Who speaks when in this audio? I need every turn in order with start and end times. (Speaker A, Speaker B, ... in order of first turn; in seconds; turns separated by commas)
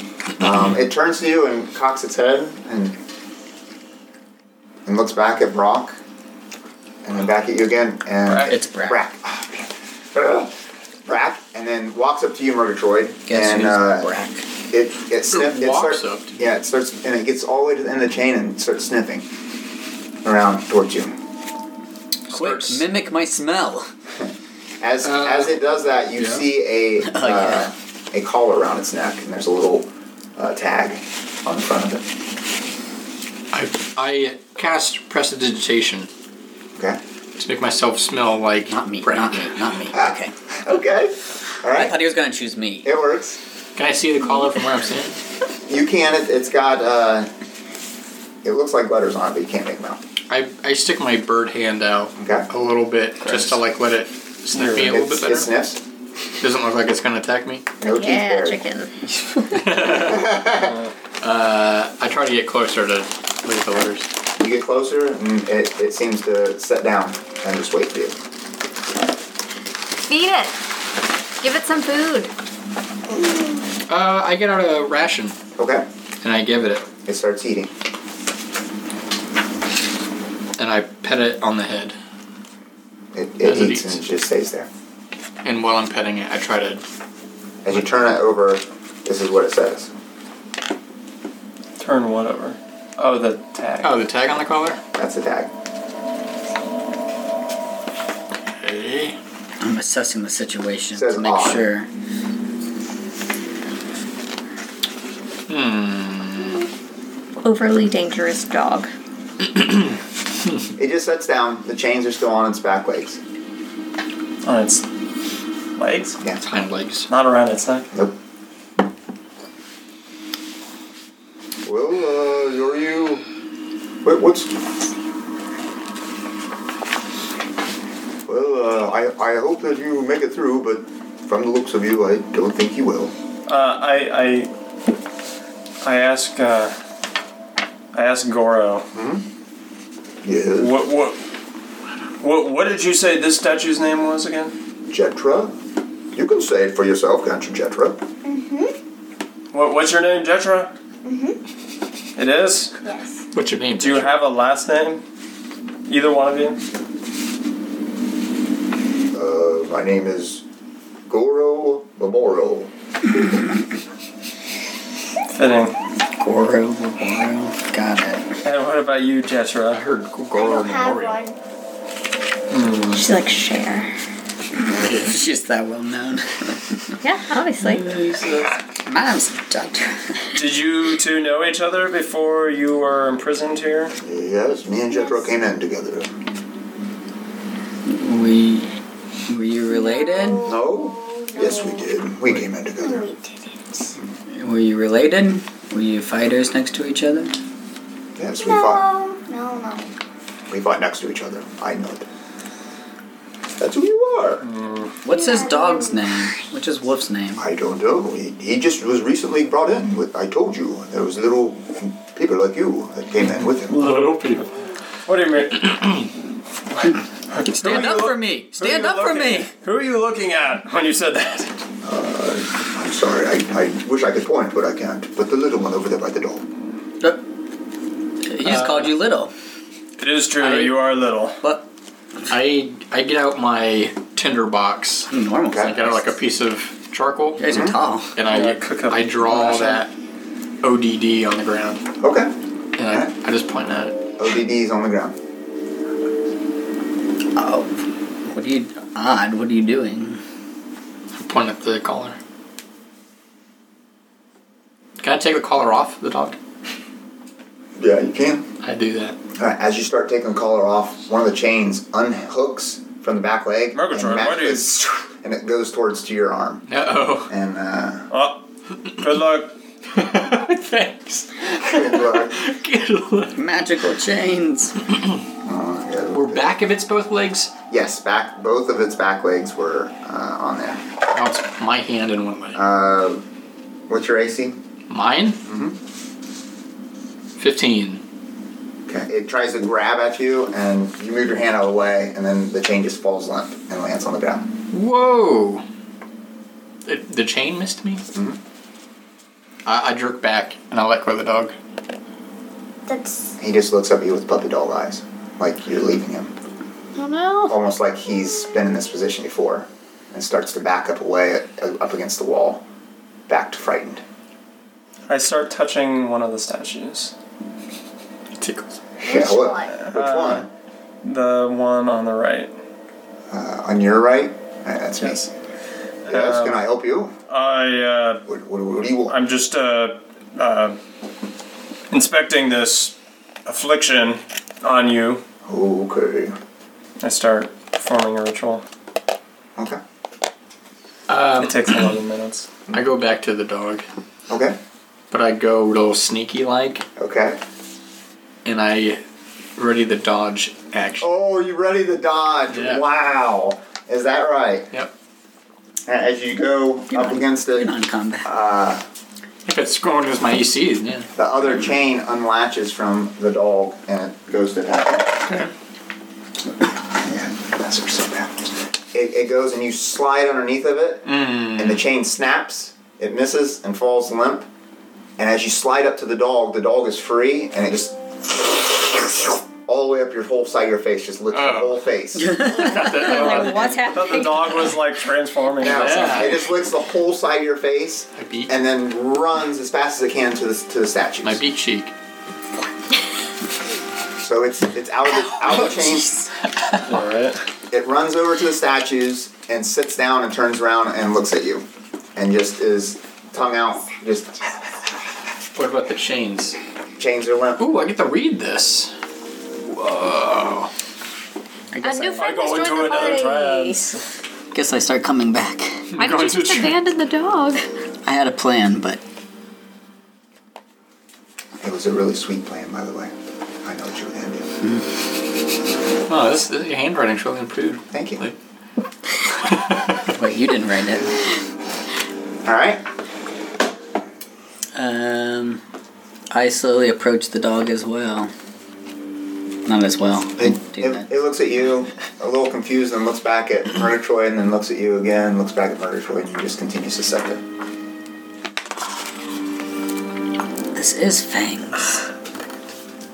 Speaker A: 0.4-3.0, Speaker A: 4.8-6.0, Speaker A: 7.0-10.5, Speaker B: 8.2-8.5, Speaker C: 8.4-9.0, Speaker A: 11.1-14.1, Speaker C: 13.3-14.4, Speaker A: 14.7-19.3, Speaker D: 15.3-16.4, Speaker A: 20.2-21.2, Speaker D: 22.3-22.8, Speaker C: 22.3-23.9, Speaker A: 24.2-32.1, Speaker D: 25.0-25.6, Speaker D: 26.1-26.5, Speaker C: 27.0-27.7, Speaker D: 33.5-36.1, Speaker D: 37.4-39.7, Speaker C: 38.7-40.3, Speaker A: 39.9-42.0, Speaker C: 41.6-42.9, Speaker A: 42.8-43.4, Speaker D: 43.8-45.2, Speaker A: 45.7-47.3, Speaker A: 48.4-50.0, Speaker D: 50.3-55.5, Speaker A: 52.1-52.5, Speaker B: 54.5-55.0, Speaker A: 54.7-55.8, Speaker D: 56.4-57.6, Speaker A: 57.8-58.6, Speaker E: 57.8-59.5, Speaker D: 59.5-60.5, Speaker A: 59.9-60.8, Speaker B: 60.6-60.9, Speaker D: 61.2-64.1, Speaker A: 64.4-68.2, Speaker E: 70.1-70.6, Speaker E: 71.4-72.3, Speaker D: 73.9-75.3, Speaker A: 75.6-75.8, Speaker D: 76.2-76.8, Speaker A: 77.0-77.7, Speaker D: 80.6-82.0, Speaker A: 83.1-84.7, Speaker D: 83.4-84.0, Speaker D: 85.4-86.8, Speaker A: 87.6-89.9, Speaker B: 91.8-93.9, Speaker D: 93.8-94.8, Speaker A: 94.9-95.5, Speaker D: 98.5-99.2, Speaker C: 99.6-101.9, Speaker A: 100.9-101.7, Speaker D: 105.5-106.6, Speaker E: 107.4-108.9, Speaker A: 110.8-113.2, Speaker B: 114.4-114.9, Speaker B: 115.8-116.2, Speaker D: 116.4-117.1, Speaker B: 117.1-117.9, Speaker A: 121.6-123.2, Speaker A: 124.0-124.7, Speaker A: 128.2-133.1, Speaker B: 133.4-134.5, Speaker B: 135.8-136.8, Speaker B: 137.9-138.8, Speaker A: 138.9-139.2, Speaker A: 140.2-140.7, Speaker B: 140.6-141.2, Speaker B: 142.2-144.5, Speaker A: 144.9-145.5, Speaker A: 146.1-148.0, Speaker F: 148.2-148.7, Speaker B: 149.5-150.7, Speaker F: 151.0-151.4, Speaker B: 152.2-152.7, Speaker F: 152.8-153.2, Speaker D: 153.3-154.2, Speaker B: 153.8-155.0, Speaker B: 155.9-156.6, Speaker A: 159.1-160.4, Speaker A: 161.1-162.7, Speaker B: 165.3-165.8, Speaker C: 166.1-168.4, Speaker B: 168.4-169.8, Speaker D: 169.7-171.2, Speaker F: 170.3-171.4, Speaker B: 172.5-173.0, Speaker E: 172.9-173.9, Speaker C: 174.7-176.9, Speaker D: 174.7-175.1, Speaker E: 177.0-178.0, Speaker C: 177.7-180.3, Speaker D: 177.9-178.5, Speaker B: 180.3-183.9, Speaker A: 184.0-186.1, Speaker F: 184.9-185.3, Speaker C: 187.8-188.7, Speaker C: 189.3-190.5, Speaker F: 189.7-192.0, Speaker A: 190.4-193.1, Speaker F: 192.7-194.0, Speaker C: 194.3-197.3, Speaker A: 198.2-198.8, Speaker F: 198.4-199.9, Speaker A: 200.5-202.0, Speaker A: 203.6-204.4, Speaker B: 204.4-204.9, Speaker C: 205.0-207.4, Speaker F: 205.1-206.3, Speaker A: 207.4-213.8, Speaker D: 213.7-214.5, Speaker B: 215.1-215.8, Speaker B: 216.8-221.5, Speaker C: 217.5-219.5, Speaker A: 221.8-226.4, Speaker C: 228.3-229.3, Speaker B: 230.0-231.4, Speaker D: 230.4-230.7, Speaker D: 232.3-237.5, Speaker C: 235.1-236.0, Speaker A: 235.5-235.8, Speaker C: 237.4-238.2, Speaker A: 237.5-237.8, Speaker D: 238.1-239.9, Speaker B: 238.3-239.8, Speaker D: 240.6-241.8, Speaker A: 242.0-242.3, Speaker D: 242.8-244.0, Speaker A: 244.2-245.2, Speaker C: 247.3-247.7, Speaker C: 248.2-250.2, Speaker D: 251.1-252.2, Speaker D: 255.0-256.4, Speaker A: 257.8-258.4, Speaker D: 258.6-259.2, Speaker A: 259.4-266.7, Speaker B: 263.7-264.7, Speaker D: 266.7-267.3, Speaker A: 267.2-268.1, Speaker B: 268.1-268.4, Speaker B: 269.0-269.5, Speaker D: 269.9-273.4, Speaker A: 271.6-272.4, Speaker C: 273.3-274.8, Speaker A: 275.4-276.5, Speaker D: 276.1-277.5, Speaker A: 277.7-280.8, Speaker D: 281.1-282.6, Speaker A: 282.5-283.2, Speaker A: 283.9-284.6, Speaker D: 284.9-285.4, Speaker A: 285.4-285.8, Speaker D: 287.4-288.0, Speaker A: 288.9-294.5, Speaker D: 294.7-295.6, Speaker D: 296.9-298.1, Speaker D: 299.6-301.5, Speaker F: 302.9-303.4, Speaker A: 303.4-306.3, Speaker E: 306.9-307.5, Speaker A: 307.5-312.6, Speaker A: 313.3-314.0, Speaker B: 315.1-317.1, Speaker D: 318.4-318.8, Speaker A: 319.0-320.5, Speaker F: 319.0-319.7, Speaker B: 319.7-320.5, Speaker B: 321.0-322.5, Speaker A: 323.3-325.3, Speaker B: 325.0-325.2, Speaker B: 326.1-326.6, Speaker A: 326.1-327.1, Speaker B: 327.3-328.2, Speaker A: 328.2-329.2, Speaker B: 329.1-330.8, Speaker B: 331.9-335.2, Speaker A: 335.4-336.4, Speaker B: 337.0-338.6, Speaker A: 339.6-339.8, Speaker D: 341.1-341.9, Speaker B: 341.4-342.5, Speaker D: 342.7-343.8, Speaker A: 344.3-344.6, Speaker D: 345.1-346.8, Speaker A: 347.0-347.4, Speaker D: 348.4-349.0, Speaker D: 349.6-351.1, Speaker A: 351.0-354.7, Speaker D: 352.5-352.8, Speaker A: 355.9-358.8, Speaker C: 356.9-358.3, Speaker D: 359.4-361.1, Speaker A: 361.1-365.3, Speaker D: 365.2-365.5, Speaker A: 366.9-374.5, Speaker D: 371.0-371.8, Speaker A: 375.2-382.5, Speaker D: 381.3-381.8, Speaker C: 382.2-382.7, Speaker D: 382.4-383.8, Speaker E: 382.5-384.8, Speaker B: 383.0-386.3, Speaker A: 385.6-391.4, Speaker D: 385.6-386.5, Speaker D: 388.1-388.5, Speaker D: 391.2-391.9, Speaker A: 394.2-396.2, Speaker B: 396.8-397.4, Speaker A: 397.7-404.5, Speaker D: 405.5-406.6, Speaker A: 407.0-407.6, Speaker D: 407.6-408.9, Speaker D: 409.6-410.7, Speaker C: 411.7-412.2, Speaker E: 411.8-414.0, Speaker B: 412.2-414.0, Speaker C: 414.5-415.9, Speaker D: 415.9-416.7, Speaker E: 416.0-417.6, Speaker C: 418.1-419.0, Speaker A: 421.6-424.5, Speaker D: 426.1-428.4, Speaker A: 427.9-428.2, Speaker D: 429.4-430.1, Speaker C: 430.1-431.1, Speaker A: 432.4-432.8, Speaker C: 434.8-435.6, Speaker C: 436.3-438.3, Speaker C: 439.6-441.1, Speaker A: 440.4-447.4, Speaker C: 450.7-452.0